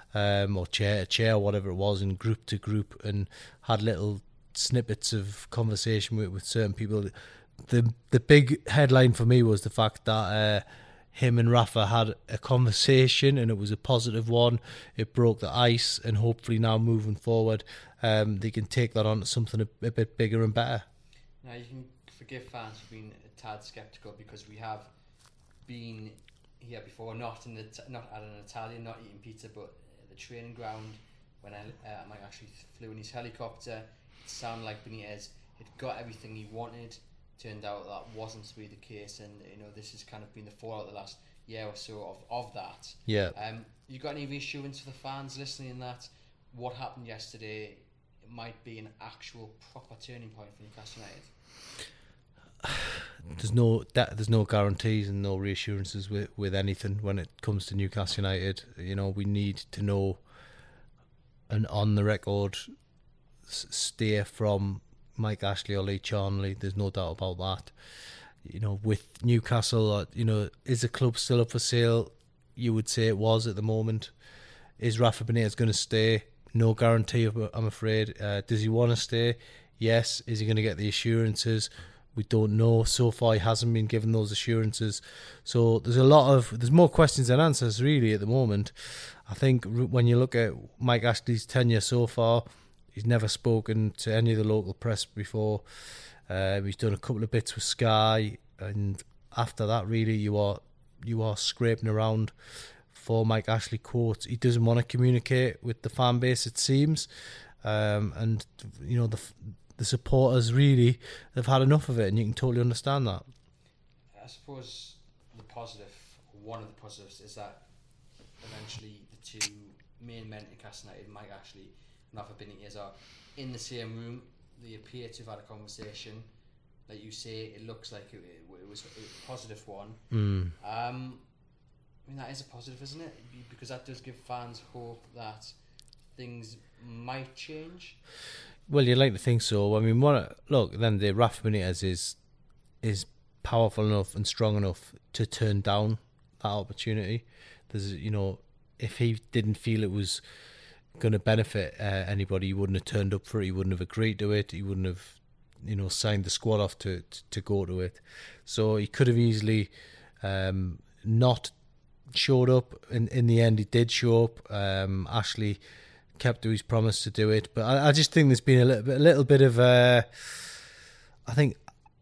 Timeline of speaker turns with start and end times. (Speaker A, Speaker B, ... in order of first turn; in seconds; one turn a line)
Speaker A: 0.1-7.1
Speaker A: 7.7-20.9
Speaker B: 21.4-24.9
Speaker B: 25.6-51.3
Speaker A: 43.0-43.3
Speaker A: 53.3-60.2
Speaker A: 61.5-62.6
Speaker A: 63.5-67.7
Speaker A: 68.4-74.1
Speaker A: 74.8-95.6
Speaker A: 96.3-102.3
Speaker A: 102.9-107.1
Speaker A: 107.6-113.2
Speaker B: 114.1-117.6
Speaker B: 118.4-126.3
Speaker B: 126.9-131.2
Speaker A: 130.1-130.5
Speaker B: 132.0-135.6
Speaker B: 136.1-138.0
Speaker A: 138.7-142.2
Speaker A: 142.8-150.2
Speaker A: 151.0-161.5
Speaker A: 162.1-165.6
Speaker A: 166.2-170.5
Speaker A: 171.2-171.6